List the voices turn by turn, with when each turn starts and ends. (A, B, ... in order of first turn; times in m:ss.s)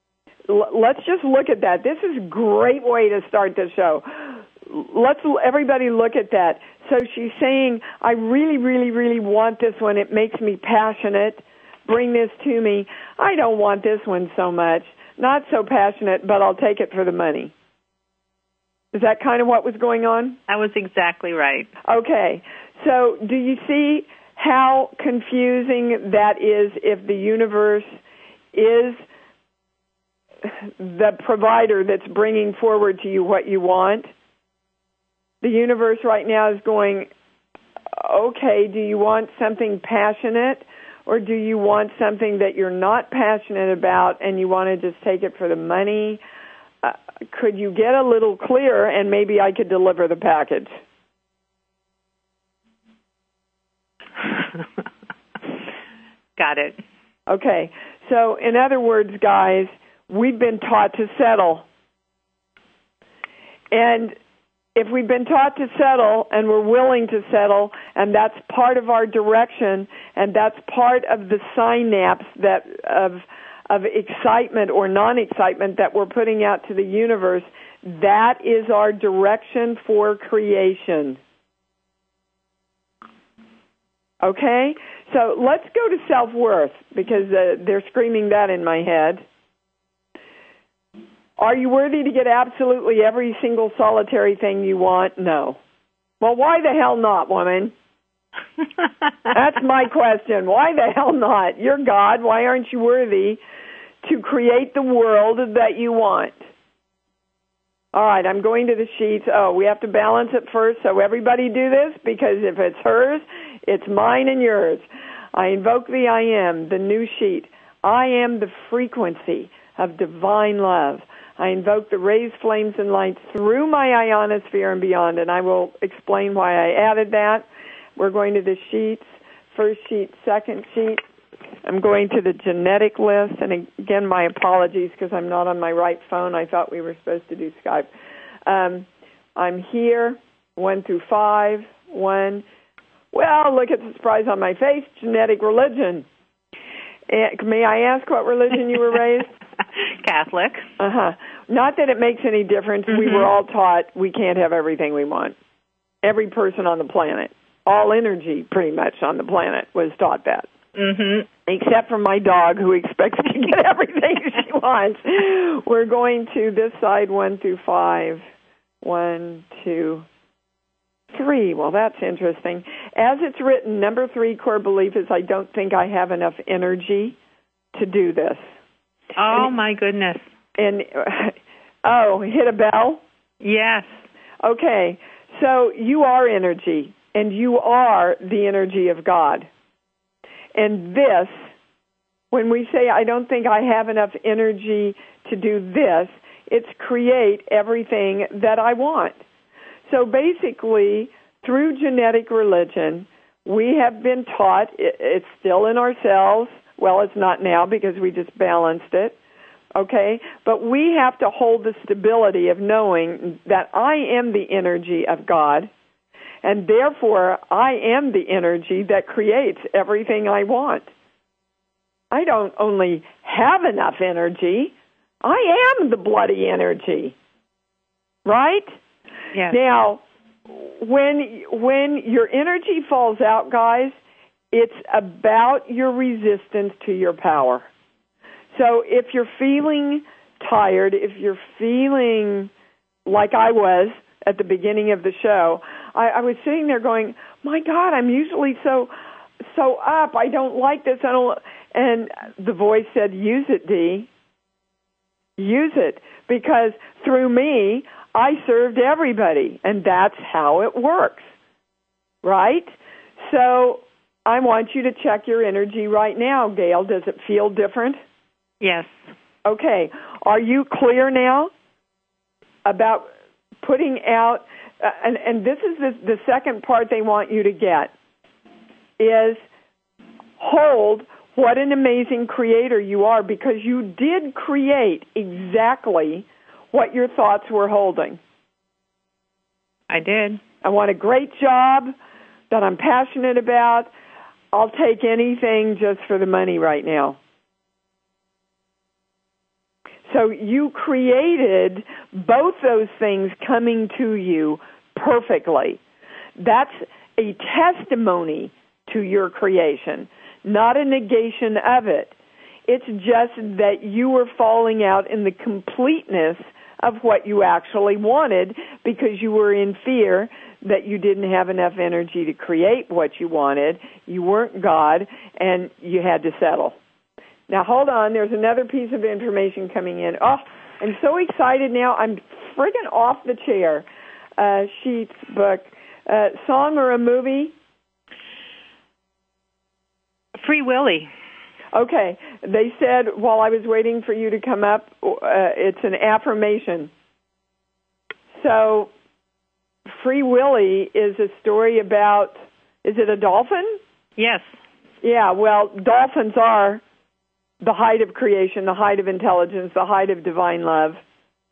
0:00.5-0:17.5 A
0:18.9-0:20.4 A
0:20.5-0:21.7 B
0:21.9-0:27.9 A
0:28.5-0:29.0 A
0:30.8-0:34.1 A
0:35.4-0:37.1 A
0:37.9-0:46.2 A
0:46.8-0:50.7 A
0:56.4-0:56.8 B
0:57.3-1:01.6 A
1:03.7-1:04.2 A
1:04.8-1:21.2 A
1:24.2-1:29.2 A
1:31.4-1:35.6 A
1:36.2-1:37.7 A
1:39.3-1:43.4 A
1:44.0-1:46.4 A
1:47.9-2:07.4 A
2:08.0-2:11.0 A
2:11.6-2:17.9 A
2:18.4-2:22.4 A
2:23.1-2:26.0 A
2:27.1-2:29.3 A
2:30.0-2:30.7 B
2:30.8-2:35.3 A
2:32.9-2:33.3 B
2:36.0-2:40.5 A
2:40.8-2:41.3 B
2:41.5-2:48.2 A
2:48.8-2:50.0 A
2:51.1-2:57.2 A
2:57.7-2:58.4 A
2:59.2-3:00.2 B
3:00.6-3:03.0 A
3:03.4-3:03.9 B
3:04.4-3:09.5 A
3:10.5-3:11.3 A
3:12.3-3:19.2 A
3:19.9-3:29.1 A
3:29.7-3:35.7 A
3:36.4-3:40.9 A
3:42.1-3:47.1 A
3:48.2-3:48.7 A
3:49.5-3:54.0 A
3:54.5-3:57.7 A
3:58.5-4:02.5 A
4:03.0-4:08.9 A
4:09.5-4:14.1 A
4:15.4-4:21.2 A
4:22.2-4:22.7 A
4:23.2-4:28.0 A
4:28.6-4:29.1 B
4:29.4-4:31.5 A
4:32.6-4:33.1 A
4:33.6-4:37.9 A
4:39.0-4:39.4 A
4:40.4-4:48.2 A
4:49.9-4:50.4 B
4:50.6-4:51.9 A
4:52.5-4:53.9 A
4:54.5-4:57.2 A
5:00.1-5:05.8 A
5:06.4-5:12.1 A
5:12.7-5:26.8 A
5:27.5-5:33.8 A
5:34.4-5:37.5 A
5:40.4-5:41.1 B
5:41.7-5:46.9 A
5:48.4-5:48.9 A
5:49.9-5:53.8 A
5:54.2-5:54.6 B
5:55.0-5:56.8 A
5:57.6-6:01.0 A